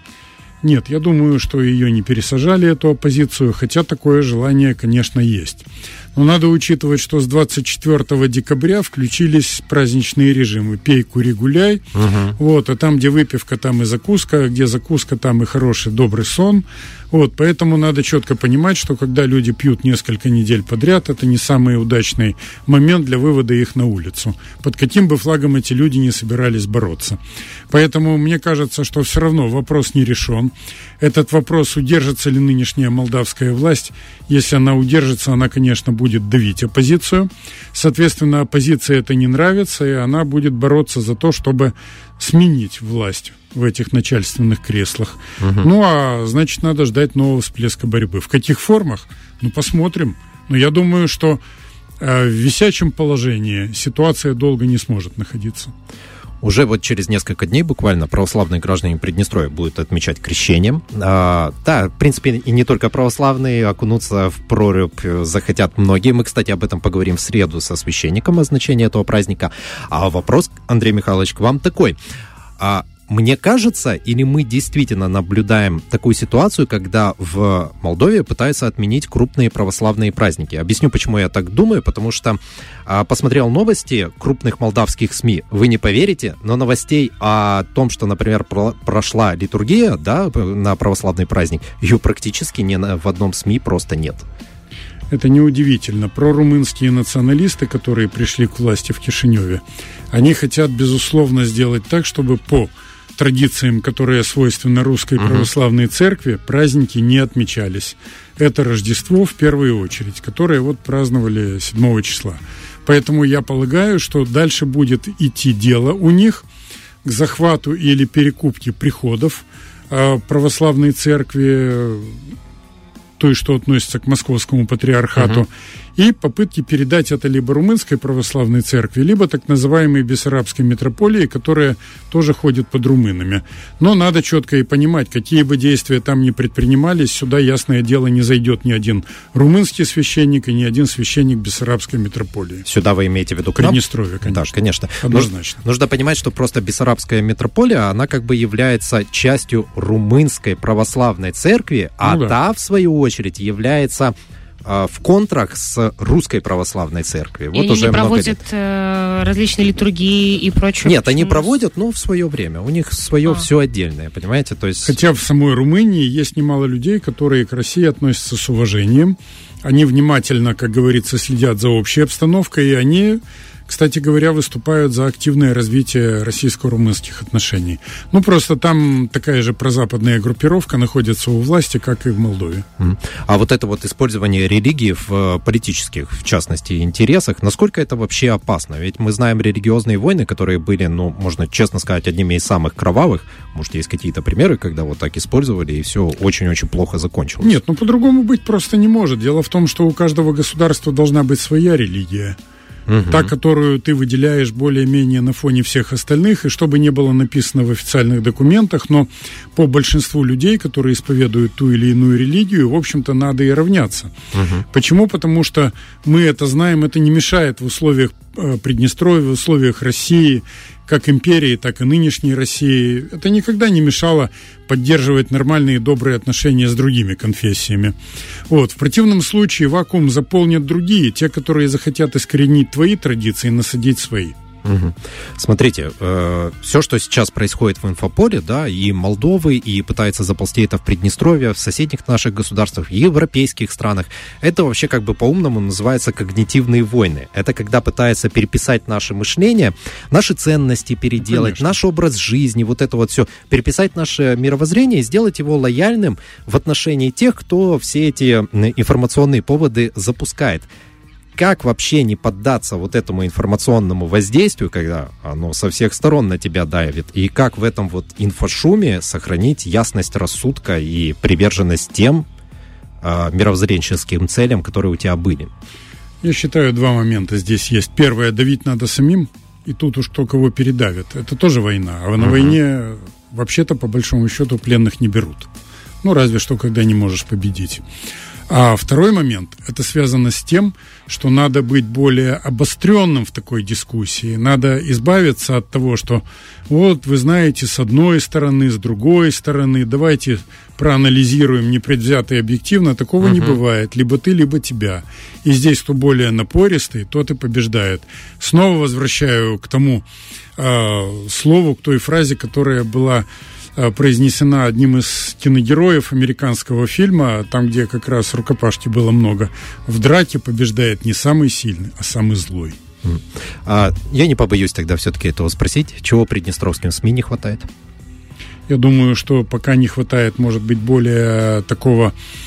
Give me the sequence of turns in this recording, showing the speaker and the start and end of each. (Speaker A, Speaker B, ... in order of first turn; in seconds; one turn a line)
Speaker A: 0.6-11.8
Speaker B: 11.9-12.4
Speaker A: 12.4-27.2
Speaker A: 27.7-51.4
Speaker B: 45.4-45.7
Speaker A: 52.0-55.7
Speaker B: 56.4-72.0
Speaker B: 72.6-94.3
Speaker A: 95.1-116.5
Speaker B: 105.2-105.5
Speaker A: 117.0-122.2
Speaker A: 123.2-142.7
Speaker B: 142.7-158.4
Speaker A: 143.6-145.6
Speaker A: 152.0-152.3
Speaker C: 157.5-161.5
Speaker B: 160.8-164.9
Speaker A: 164.9-182.7
Speaker B: 182.8-197.6
Speaker A: 197.4-202.4
Speaker B: 202.9-203.3
Speaker A: 203.1-214.1
Speaker B: 214.3-214.6
Speaker A: 214.7-227.9
Speaker A: 228.5-234.4
Speaker B: 234.6-260.7
Speaker A: 251.2-251.8
Speaker B: 261.4-272.3
Speaker B: 273.0-275.5
Speaker A: 276.2-285.5
Speaker B: 282.2-282.6
Speaker A: 286.0-287.8
Speaker A: 288.5-310.1
Speaker B: 303.2-303.6
Speaker A: 310.6-322.8
Speaker B: 323.0-327.7
Speaker A: 328.7-332.1